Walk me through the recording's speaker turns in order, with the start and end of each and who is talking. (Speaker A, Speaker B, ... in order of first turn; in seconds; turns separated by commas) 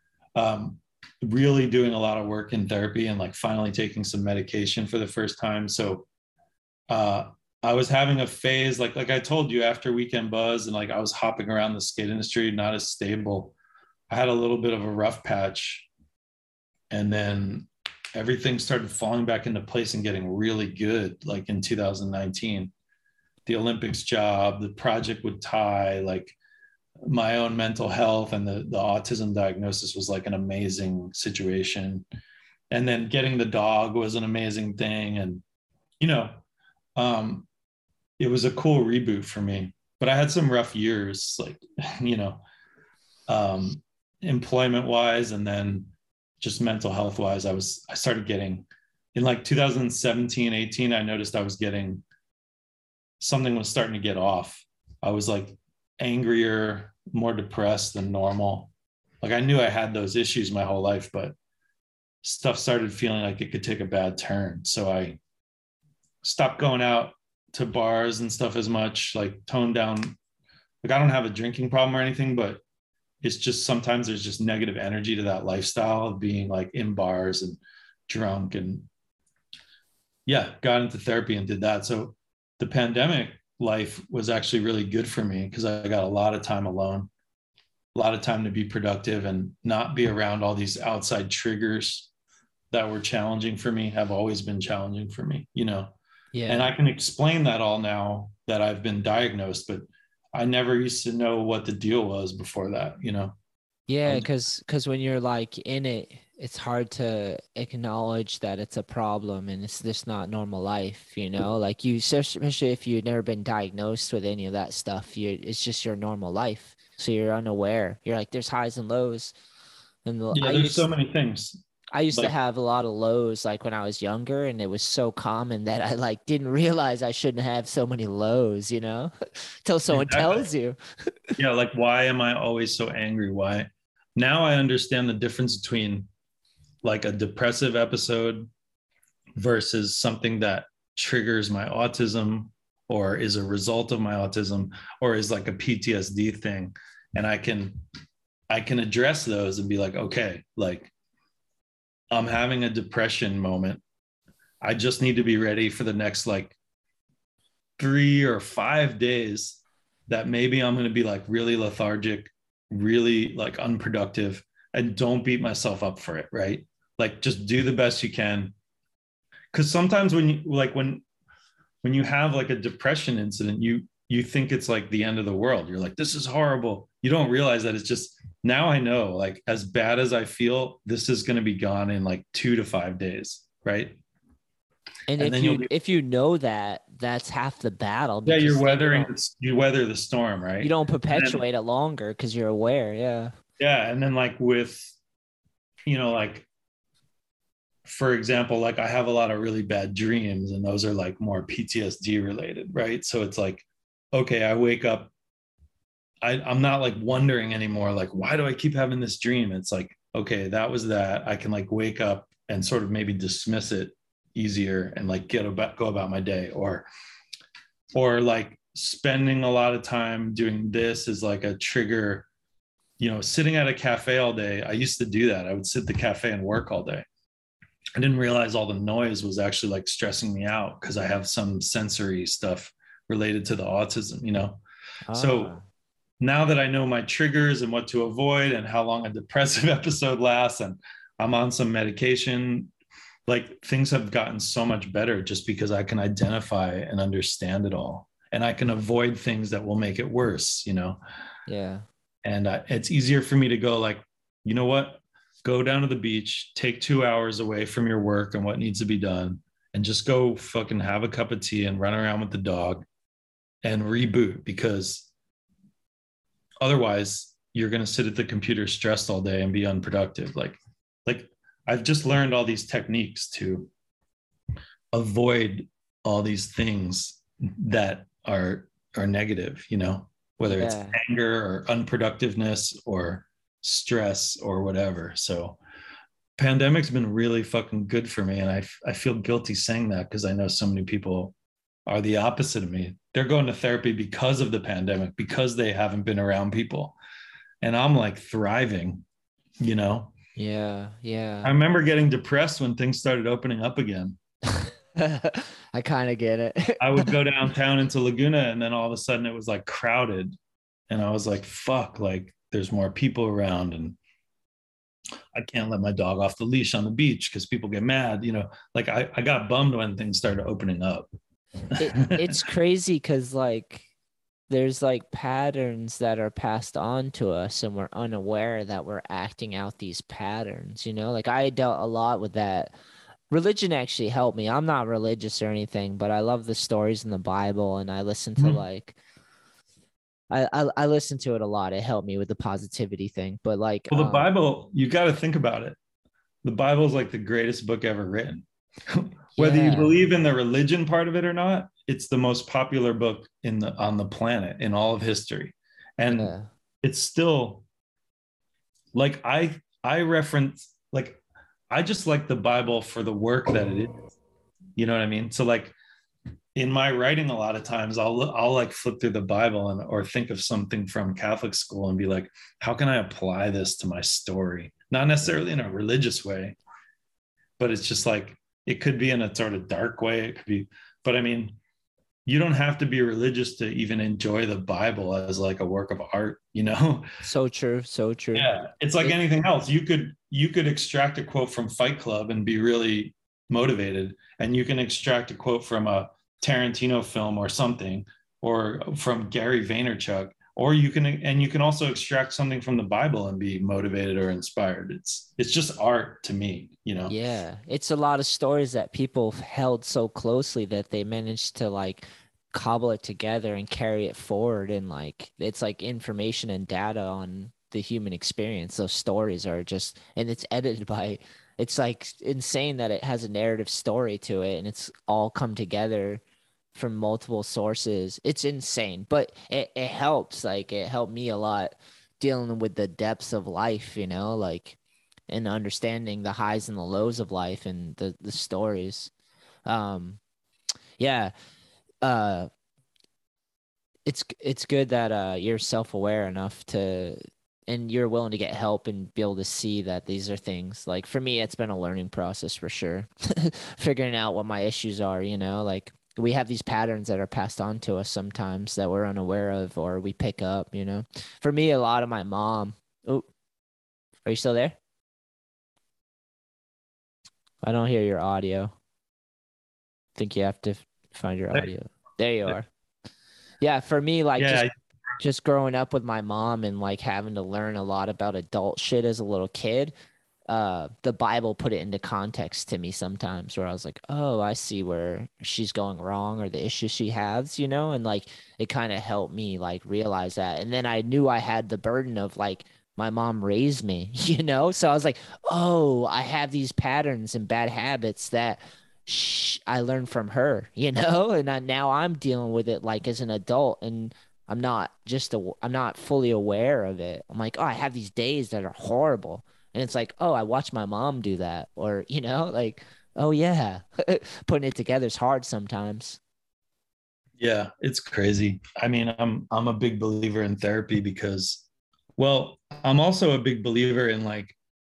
Speaker A: 0.4-6.1, Speaker A: 6.9-13.6, Speaker A: 14.1-15.9, Speaker A: 16.9-22.7, Speaker A: 23.5-26.4, Speaker A: 27.0-32.0, Speaker A: 32.7-35.4, Speaker A: 36.0-36.4, Speaker A: 37.0-37.5, Speaker A: 38.2-42.4, Speaker A: 43.3-52.0, Speaker A: 53.2-58.7, Speaker A: 59.2-61.4, Speaker A: 62.2-65.2, Speaker A: 66.2-70.2, Speaker A: 70.8-72.6, Speaker A: 73.2-78.9, Speaker A: 80.3-87.1, Speaker A: 88.0-92.1, Speaker A: 92.7-96.0, Speaker B: 96.3-96.7, Speaker A: 96.5-103.4, Speaker B: 103.9-119.3, Speaker B: 120.0-120.9, Speaker A: 120.3-122.3, Speaker B: 121.9-130.8, Speaker A: 129.9-130.5, Speaker A: 131.4-136.1, Speaker A: 136.8-138.5, Speaker A: 139.4-147.8, Speaker A: 148.5-150.9, Speaker A: 152.1-153.8, Speaker A: 154.6-156.6, Speaker A: 157.8-168.5, Speaker A: 169.5-171.0, Speaker A: 171.8-184.0, Speaker B: 185.1-189.1, Speaker A: 185.2-185.7, Speaker A: 188.3-191.4, Speaker B: 190.6-193.3, Speaker A: 193.6-194.9, Speaker A: 195.9-196.5, Speaker A: 197.9-205.1, Speaker A: 206.2-216.9, Speaker A: 217.9-222.3, Speaker A: 223.0-227.1, Speaker A: 228.0-234.6, Speaker B: 235.1-235.6, Speaker A: 235.1-235.6, Speaker A: 236.2-242.7, Speaker A: 243.3-251.0, Speaker B: 251.5-251.8, Speaker A: 252.2-262.9, Speaker A: 263.6-265.1, Speaker A: 266.6-273.7, Speaker A: 274.9-285.6, Speaker B: 280.5-281.0, Speaker A: 286.4-291.3, Speaker A: 291.9-297.0, Speaker A: 297.6-299.1, Speaker A: 299.6-300.1, Speaker B: 300.4-301.5, Speaker A: 301.4-304.2, Speaker B: 305.0-307.1, Speaker A: 306.8-310.4, Speaker A: 310.9-314.0, Speaker A: 315.3-321.1, Speaker A: 321.7-322.4, Speaker B: 321.8-323.9, Speaker B: 324.5-332.8, Speaker B: 333.3-339.0, Speaker A: 338.4-338.6, Speaker B: 340.3-344.3, Speaker A: 343.9-345.8, Speaker A: 346.4-357.6, Speaker B: 349.4-349.9, Speaker B: 356.1-356.5, Speaker A: 358.9-361.2, Speaker A: 361.7-364.0, Speaker A: 364.8-365.8, Speaker A: 366.6-376.6, Speaker A: 377.6-381.6, Speaker A: 382.3-387.1, Speaker B: 387.2-389.2, Speaker A: 388.4-407.1, Speaker B: 407.1-426.2, Speaker B: 426.7-434.8, Speaker B: 435.3-439.1, Speaker B: 439.7-440.2, Speaker B: 441.0-441.3, Speaker B: 442.0-442.5, Speaker B: 444.1-463.3, Speaker B: 464.2-464.8, Speaker B: 467.6-468.7, Speaker B: 470.2-472.7, Speaker B: 473.6-474.7, Speaker A: 474.4-474.7, Speaker B: 475.2-479.9, Speaker B: 480.5-516.2, Speaker A: 517.4-521.6, Speaker A: 522.2-524.6